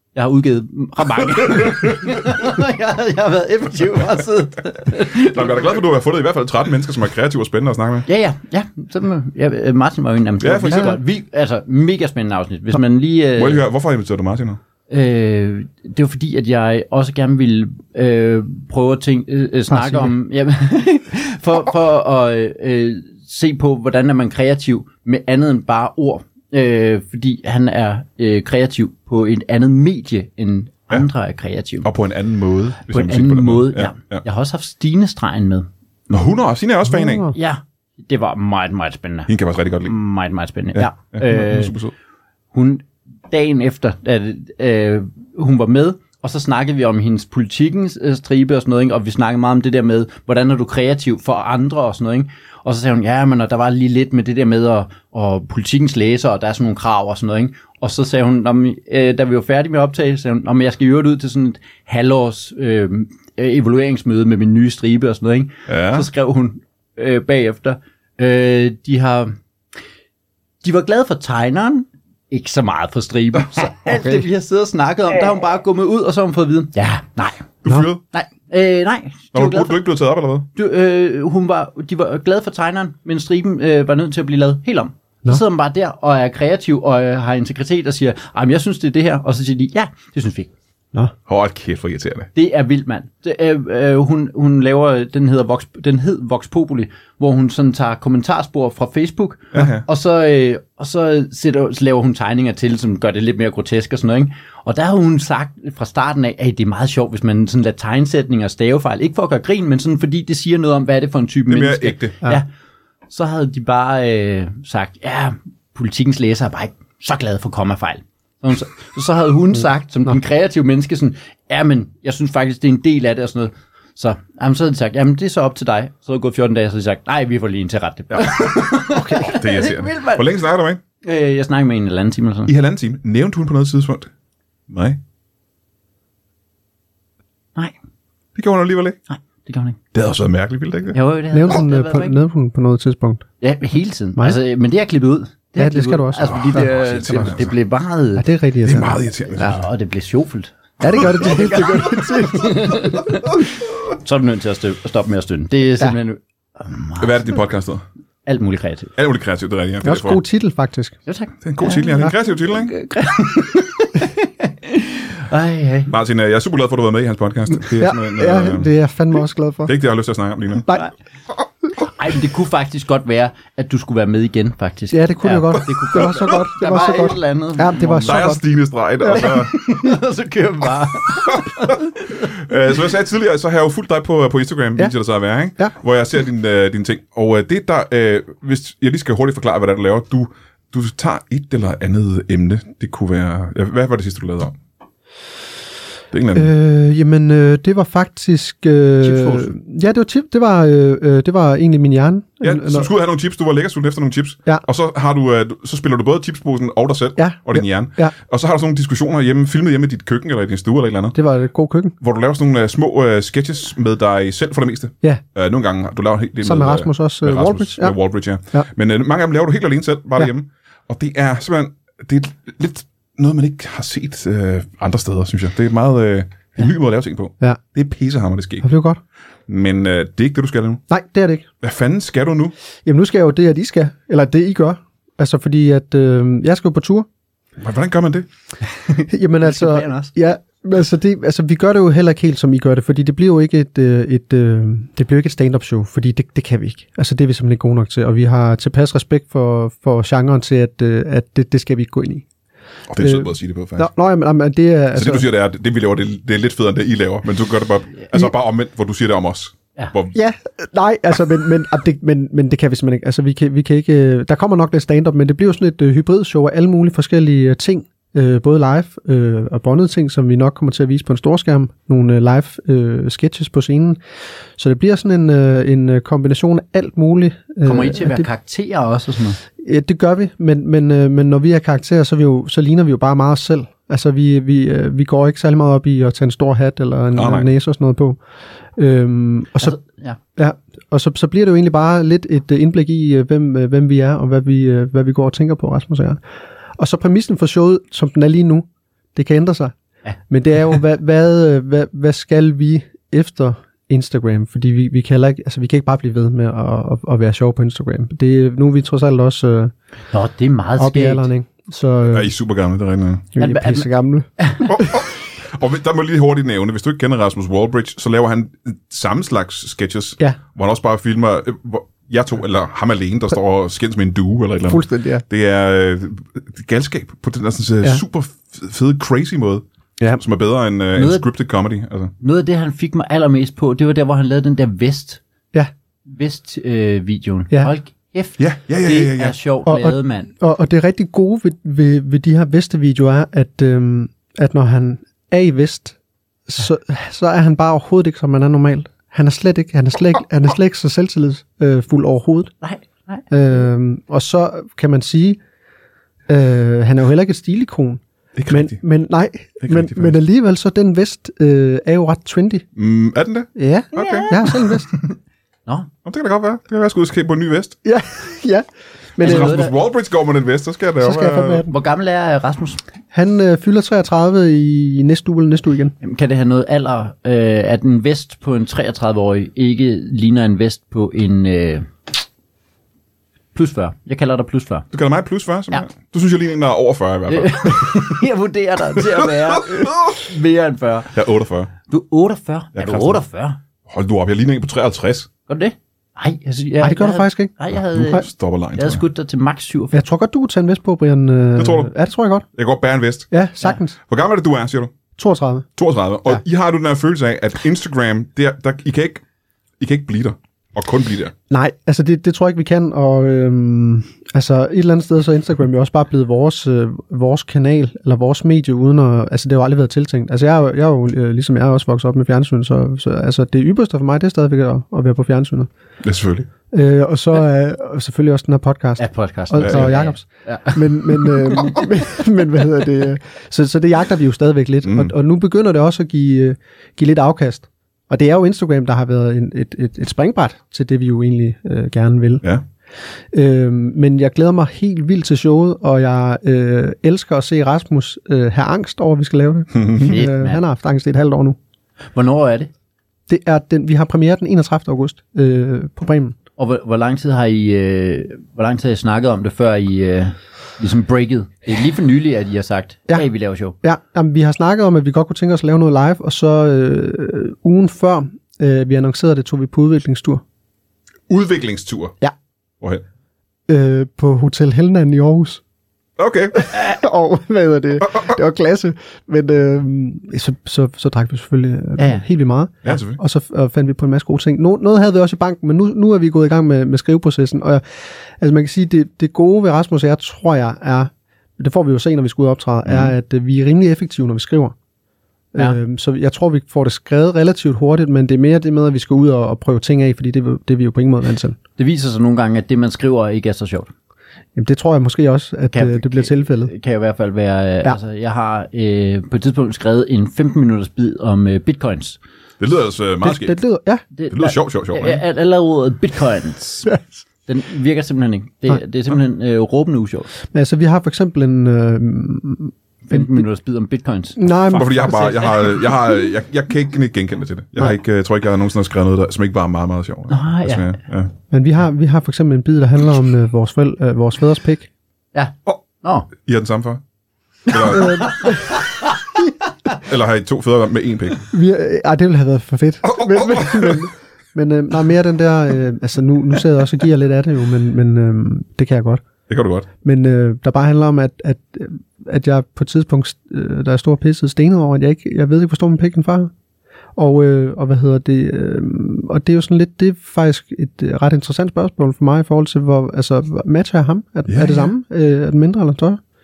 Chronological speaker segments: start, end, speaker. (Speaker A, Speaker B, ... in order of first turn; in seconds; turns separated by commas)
Speaker A: 0.1-5.8, Speaker B: 5.2-8.1, Speaker A: 8.1-13.6, Speaker B: 10.4-11.0, Speaker C: 10.7-11.0, Speaker B: 13.4-14.6, Speaker A: 14.9-31.9, Speaker C: 19.7-20.1, Speaker B: 31.8-34.2, Speaker A: 32.9-35.7, Speaker B: 36.1-37.3, Speaker C: 36.9-37.4, Speaker A: 37.3-39.3, Speaker B: 39.3-39.9, Speaker A: 39.9-41.7, Speaker B: 40.8-41.9, Speaker A: 42.5-69.4, Speaker B: 65.7-66.1, Speaker A: 70.6-77.5, Speaker B: 77.6-78.0, Speaker A: 78.1-79.8, Speaker B: 79.3-80.5, Speaker A: 80.5-90.5, Speaker B: 91.3-92.3, Speaker A: 92.3-112.5, Speaker B: 99.5-99.8, Speaker B: 111.5-112.2, Speaker A: 113.1-130.3, Speaker B: 128.1-130.8, Speaker C: 128.9-129.3, Speaker A: 131.0-132.5, Speaker B: 132.5-134.1, Speaker B: 134.7-135.0, Speaker B: 138.4-139.0, Speaker A: 139.1-139.8, Speaker B: 139.9-141.0, Speaker A: 140.9-142.2, Speaker C: 141.3-143.2, Speaker A: 143.4-148.2, Speaker C: 145.6-146.7, Speaker B: 146.2-147.6, Speaker C: 148.2-149.6, Speaker B: 148.6-149.6, Speaker A: 149.4-153.3, Speaker C: 150.8-152.9, Speaker A: 154.0-157.3, Speaker B: 157.0-157.8, Speaker A: 158.2-158.9, Speaker B: 159.0-160.2, Speaker C: 159.8-161.0, Speaker A: 161.1-165.9, Speaker B: 161.4-162.7, Speaker B: 165.9-168.7, Speaker C: 167.8-169.7, Speaker B: 169.7-170.7, Speaker A: 171.8-178.3, Speaker C: 174.9-178.4, Speaker B: 178.1-179.6, Speaker C: 179.0-179.3, Speaker A: 179.1-182.3, Speaker B: 181.2-194.6, Speaker B: 196.1-196.5, Speaker C: 196.3-202.9, Speaker B: 199.1-199.5, Speaker B: 202.4-211.2, Speaker C: 207.2-208.1, Speaker C: 211.2-212.0, Speaker B: 212.0-228.7, Speaker C: 216.4-217.9, Speaker C: 228.6-229.0, Speaker B: 229.5-230.8, Speaker C: 230.9-231.5, Speaker B: 231.6-232.5, Speaker C: 232.8-237.1, Speaker B: 237.6-238.3, Speaker A: 238.9-240.1, Speaker C: 239.1-252.2, Speaker B: 252.9-253.9, Speaker C: 253.0-255.3, Speaker B: 254.9-260.1, Speaker C: 260.1-274.0, Speaker C: 274.6-278.3, Speaker A: 277.6-279.4, Speaker C: 279.6-288.2, Speaker B: 287.1-287.5, Speaker C: 288.8-289.8, Speaker A: 289.6-290.2, Speaker C: 290.4-296.2, Speaker C: 296.8-299.7, Speaker C: 300.3-309.7, Speaker A: 310.1-311.3, Speaker C: 310.8-312.3, Speaker B: 312.1-313.3, Speaker C: 313.4-315.0, Speaker A: 313.4-314.6, Speaker B: 314.6-332.1, Speaker C: 324.7-325.2, Speaker A: 331.0-331.2, Speaker A: 332.2-335.2, Speaker A: 336.1-340.3, Speaker B: 338.4-339.4, Speaker C: 339.7-352.5, Speaker A: 352.6-353.3, Speaker C: 353.3-355.4, Speaker C: 356.3-362.7, Speaker B: 358.4-358.8, Speaker B: 359.6-360.2, Speaker B: 362.8-364.3, Speaker C: 363.6-364.9, Speaker A: 363.9-365.2, Speaker B: 366.1-367.8, Speaker C: 367.9-369.7, Speaker B: 369.2-371.7, Speaker A: 369.2-369.7, Speaker C: 371.0-371.7, Speaker A: 371.7-372.8, Speaker C: 373.1-375.9, Speaker A: 376.0-381.9, Speaker A: 383.5-384.9, Speaker B: 384.9-388.2, Speaker A: 387.3-391.1, Speaker B: 389.0-390.2, Speaker B: 391.1-391.7, Speaker A: 391.9-393.6, Speaker B: 392.8-393.2, Speaker B: 393.9-395.3, Speaker A: 395.5-400.0, Speaker C: 396.8-397.5, Speaker B: 397.9-399.0, Speaker C: 399.9-402.4, Speaker B: 401.6-401.9, Speaker B: 402.6-403.3, Speaker C: 403.3-403.9, Speaker B: 404.1-404.9, Speaker C: 405.2-405.7, Speaker B: 405.8-409.2, Speaker B: 409.8-411.3, Speaker C: 411.5-425.7, Speaker B: 426.0-426.5, Speaker C: 426.7-442.4, Speaker A: 429.0-431.8, Speaker B: 429.6-430.0, Speaker B: 434.8-435.1, Speaker C: 443.3-451.6, Speaker B: 449.7-450.1, Speaker A: 450.0-450.6, Speaker A: 452.1-452.7, Speaker C: 453.3-456.4, Speaker A: 456.6-463.8, Speaker C: 463.8-470.4, Speaker B: 471.3-472.1, Speaker C: 473.7-475.6, Speaker B: 476.2-476.8, Speaker C: 476.6-494.8, Speaker B: 478.0-478.4, Speaker A: 482.0-482.2, Speaker B: 482.8-483.2, Speaker B: 492.9-493.1, Speaker C: 495.5-501.6, Speaker A: 501.8-503.9, Speaker C: 504.6-506.7, Speaker A: 505.7-512.2, Speaker B: 512.6-513.6, Speaker C: 513.2-514.0, Speaker A: 514.1-520.3, Speaker B: 514.3-515.2, Speaker C: 520.5-523.5, Speaker A: 523.1-525.5, Speaker C: 524.4-525.8, Speaker B: 524.7-531.3, Speaker A: 530.3-530.9, Speaker C: 531.5-534.9, Speaker A: 535.3-536.3, Speaker B: 536.4-537.0, Speaker B: 537.7-538.6, Speaker A: 537.7-539.1, Speaker C: 537.9-538.8, Speaker B: 540.0-541.5, Speaker C: 541.5-549.2, Speaker B: 543.1-544.0, Speaker B: 549.5-549.9, Speaker C: 550.0-556.5, Speaker C: 557.1-566.2, Speaker B: 564.5-564.9